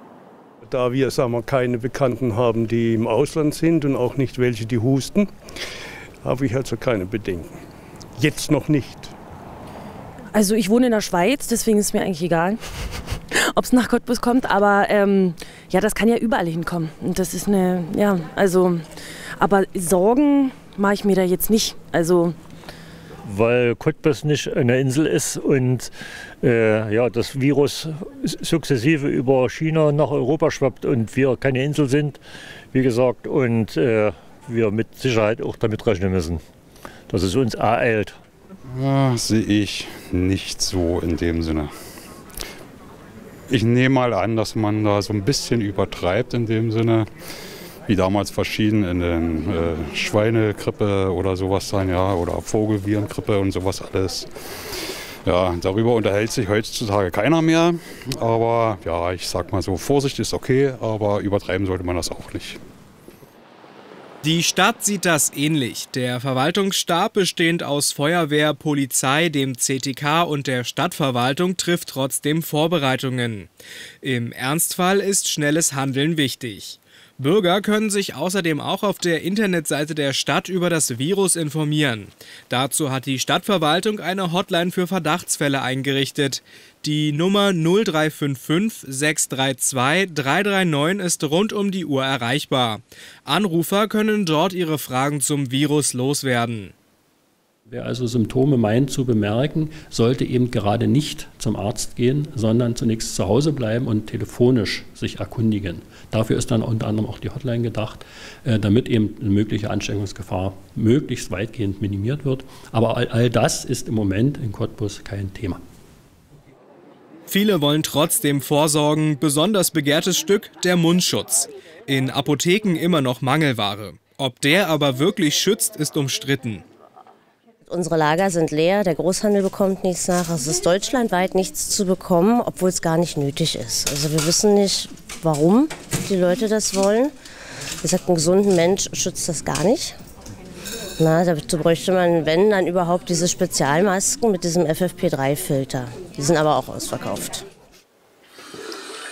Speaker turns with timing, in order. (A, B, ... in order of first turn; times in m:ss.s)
0:00.6-0:05.3 A
0:06.2-0:07.6 A
0:08.2-0:09.1 A
0:10.4-0:12.6 B
0:13.5-0:18.8 B
0:19.4-0:22.3 B
0:23.2-0:36.4 C
0:37.1-0:38.2 C
0:38.7-0:41.7 D
0:43.5-0:47.1 D
0:47.9-0:54.3 D
0:55.2-1:02.6 D
1:04.2-1:13.5 E
1:14.0-1:36.7 E
1:37.7-1:55.6 F
1:57.3-2:06.6 E
2:07.7-2:17.1 D
2:07.7-2:08.6 G
2:09.1-2:10.9 G
2:11.6-2:16.8 G
2:17.8-2:19.9 D
2:17.9-2:19.9 G
2:21.0-2:22.5 G
2:21.2-2:27.4 D
2:23.0-2:24.5 G
2:25.2-2:27.4 G